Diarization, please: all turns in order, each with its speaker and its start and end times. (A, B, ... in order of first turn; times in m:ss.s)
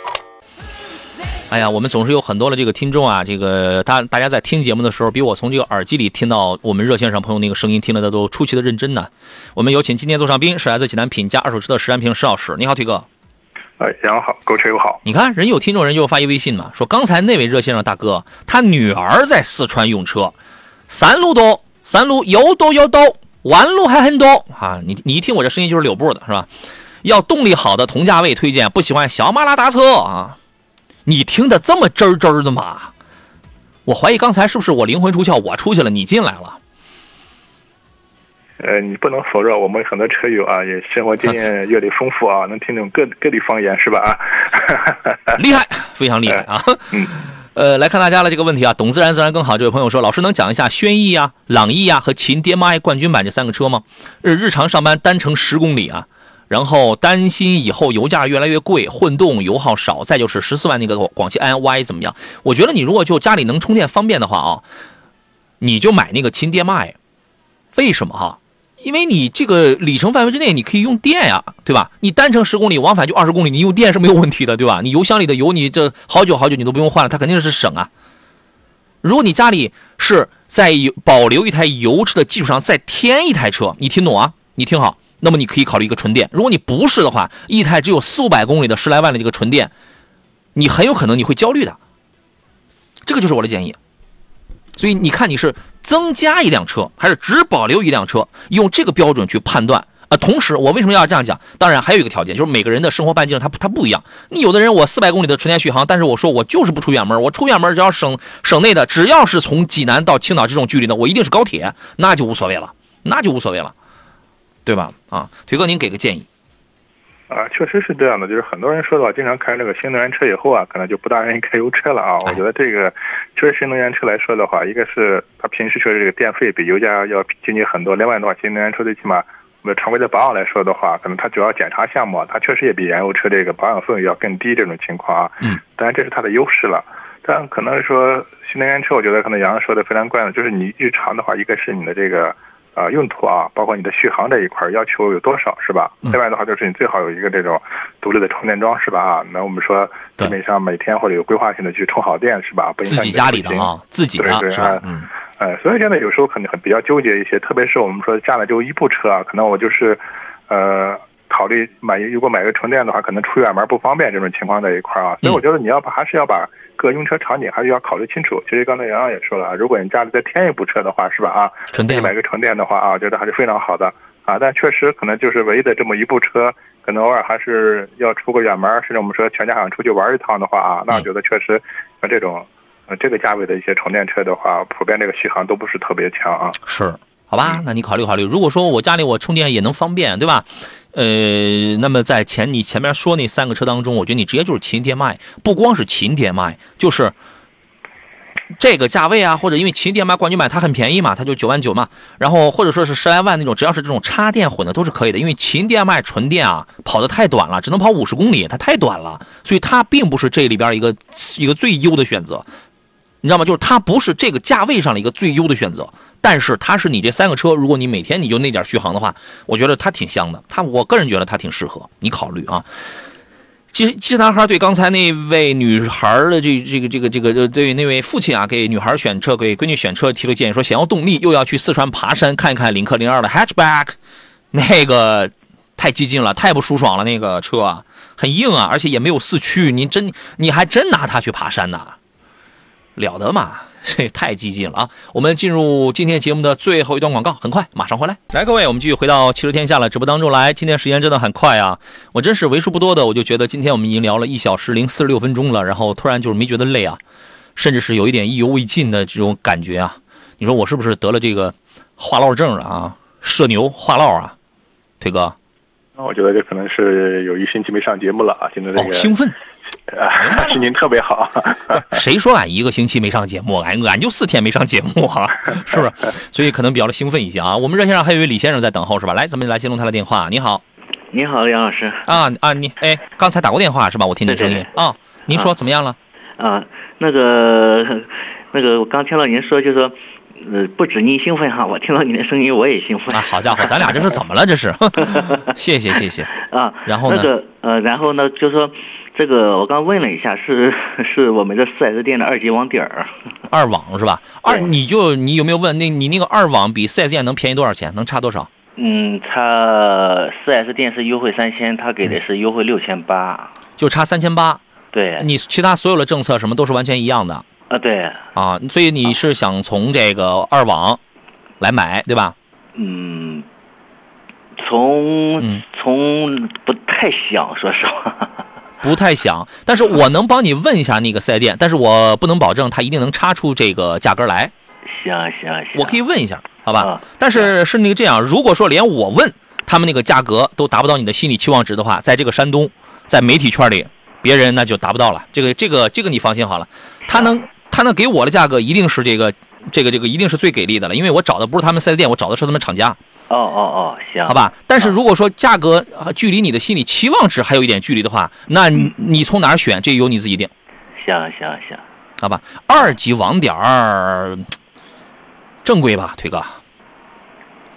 0:01.5-0:13.1 A
0:13.8-0:15.0 B
0:15.0-0:20.4 A
0:20.9-0:26.5 A
0:27.0-0:30.4 A
0:31.1-0:32.9 A
0:33.9-0:36.6 A
0:38.6-0:45.4 B
0:45.3-1:04.6 A
1:05.6-1:07.0 A
1:07.7-1:17.9 A
1:19.0-1:29.7 A
1:30.6-1:31.8 A
1:33.1-1:33.8 A
1:34.7-1:53.7 A
1:54.7-1:56.3 A
1:57.3-2:34.9 B
2:32.9-2:35.1 A
2:35.4-3:06.6 B
2:51.7-2:52.1 A
3:06.6-3:17.1 A
3:18.6-3:32.4 A
3:33.2-3:42.7 A
3:43.7-3:54.0 A
3:54.5-4:02.0 A
4:03.0-4:17.0 A
4:17.6-4:24.4 A
4:25.0-4:25.4 A
4:26.0-4:29.1 B
4:28.7-4:29.4 A
4:29.9-4:32.0 B
4:30.2-4:30.6 A
4:31.7-4:40.6 A
4:41.1-4:42.2 C
4:42.1-4:46.0 A
4:44.3-4:44.7 C
4:46.4-4:54.2 C
4:53.1-4:56.3 A
4:55.0-4:55.5 C
4:56.4-5:03.2 C
4:56.9-4:57.3 A
5:03.5-5:08.5 A
5:04.4-5:04.7 C
5:08.8-5:13.5 C
5:13.8-5:14.6 A
5:14.9-5:15.3 C
5:15.2-5:17.4 A
5:17.7-5:18.2 C
5:18.4-5:21.0 A
5:21.6-5:22.4 A
5:22.8-5:23.4 C
5:24.6-5:28.4 C
5:28.8-5:34.5 A
5:34.9-5:36.0 C
5:35.7-5:53.0 A
5:36.8-5:37.5 C
5:47.1-5:47.4 C
5:53.3-5:55.0 C
5:54.2-6:00.5 A
6:01.0-6:01.8 C
6:02.2-6:04.5 A
6:05.6-6:06.6 A